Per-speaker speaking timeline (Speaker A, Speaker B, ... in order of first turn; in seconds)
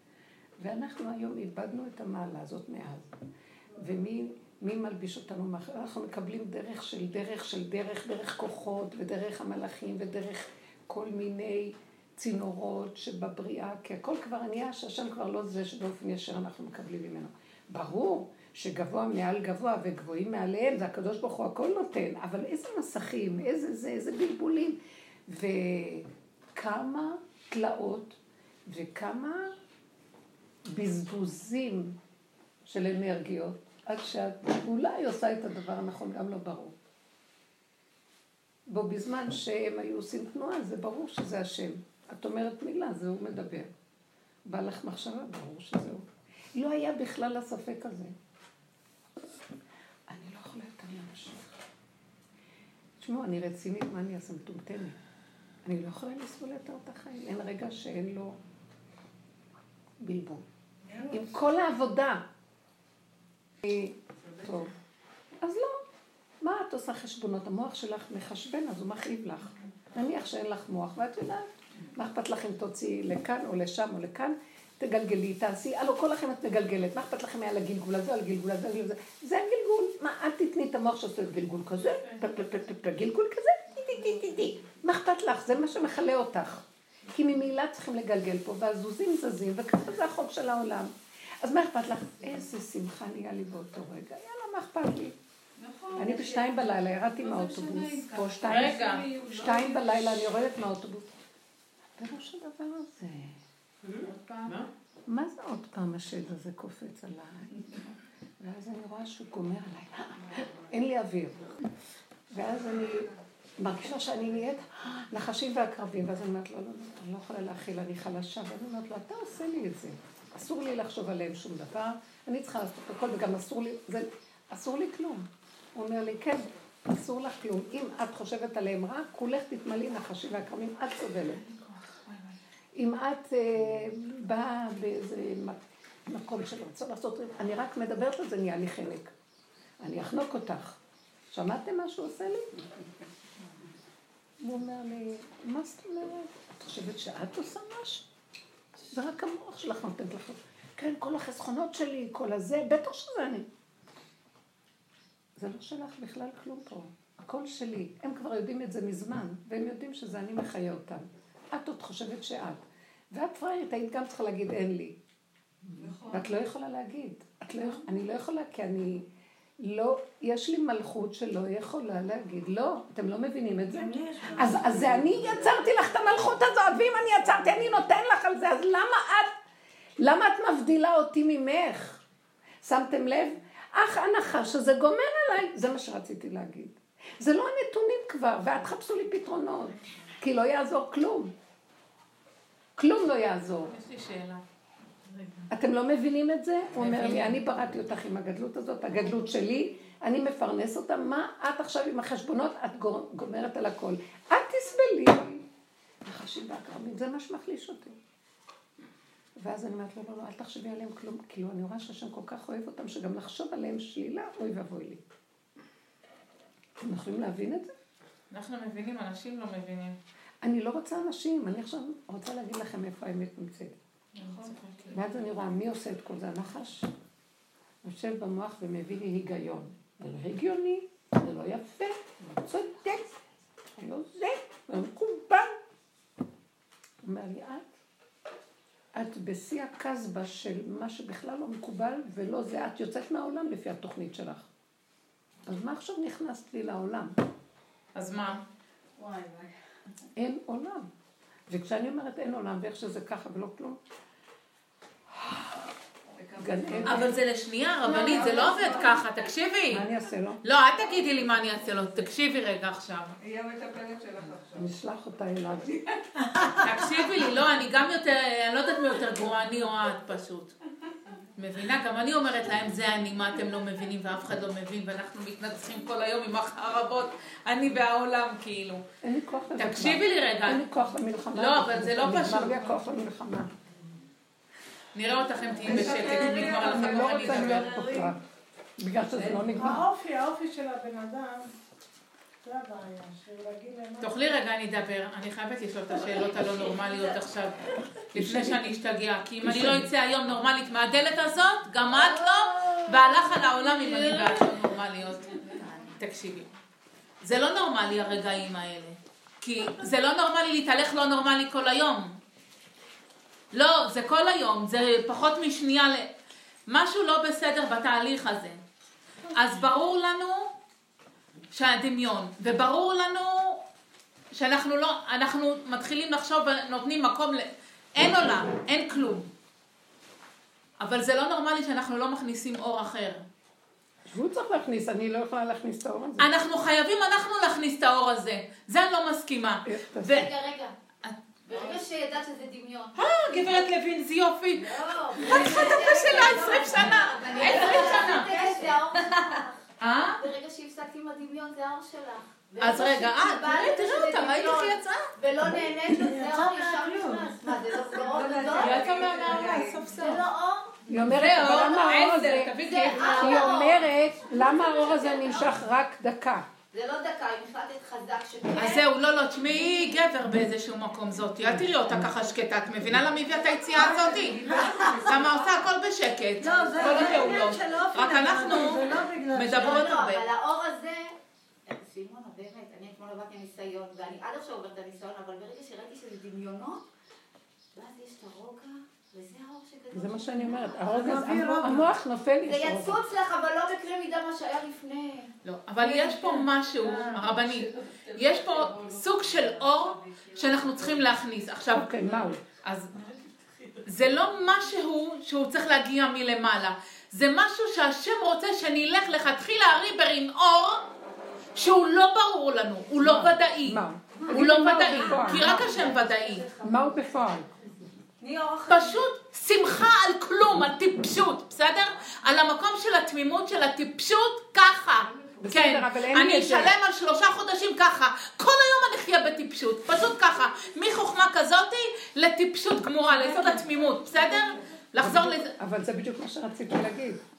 Speaker A: 0.6-3.1, 3.8-29.5, 30.7-32.0, 32.7-36.8, 38.7-43.7, 44.5-48.1, 50.1-51.5, 53.0-55.0, 55.6-58.4, 60.0-60.4, 61.1-62.2, 63.6-64.7, 65.4-65.8, 66.4-95.2, 96.0-101.1, 102.0-103.4, 105.1-107.8, 108.4-111.5, 112.3-131.4, 132.7-139.1, 139.8-140.8, 141.3-142.7, 144.4-148.1, 148.9-153.5, 155.4-165.0, 166.1-169.1, 169.6-179.3, 180.0-182.0, 182.6-191.3, 192.8-193.7, 195.5-205.4, 206.0-208.0, 209.4-215.0, 216.8-217.7, 220.4-223.8, 224.9-226.9, 227.8-233.1, 233.8-235.5, 237.0-237.7, 238.9-244.5, 245.4-247.2, 250.2-250.9, 251.5-253.8, 255.1-255.6, 256.4-257.1, 258.0-258.4, 259.7-260.4, 264.5-266.0, 279.0-283.5, 285.7-288.2, 288.8-289.8, 298.1-298.7, 299.4-299.9, 334.1-336.3, 339.6-340.2, 360.9-366.4, 389.9-393.0, 401.7-402.4, 413.0-415.7, 416.6-417.5, 425.4-426.7, 435.0-437.2
Speaker B: 95.8-96.2, 97.3-98.3, 98.8-99.8, 173.7-175.3, 249.0-249.4, 258.1-258.7, 285.6-288.1, 289.1-291.5, 292.4-294.3, 302.2-304.1, 345.3-346.7, 347.3-348.5, 355.9-357.4, 357.9-360.2, 373.8-375.1, 376.4-379.6, 390.9-391.9, 433.2-433.5
Speaker C: 98.4-99.2, 104.0-104.5, 193.7-194.4, 195.1-195.4, 196.8-197.4, 218.3-220.0, 224.2-224.9, 247.9-248.4, 256.8-259.9, 260.4-263.1, 266.6-270.5, 271.4-278.8, 279.6-280.6, 281.3-282.7, 284.9-287.8, 294.0-306.5, 307.2-312.2, 313.5-316.1, 316.7-318.6, 319.3-320.5, 321.5-323.6, 324.3-329.3, 330.8-333.2, 336.2-340.3, 342.9-348.7, 349.8-350.2, 352.6-355.1, 358.5-360.2, 361.0-363.6, 368.6-380.2, 395.4-402.9, 403.8-410.8, 411.6-416.5, 418.7-435.5
Speaker D: 103.9-104.7, 263.2-264.5
Speaker E: 285.7-286.7, 340.0-340.7, 341.4-343.0, 344.6-349.6, 350.1-360.8, 362.6-365.6, 366.7-368.9, 373.3-375.6, 376.4-378.8, 379.4-386.8, 387.7-391.5, 392.4-396.4, 414.2-416.6, 418.2-419.1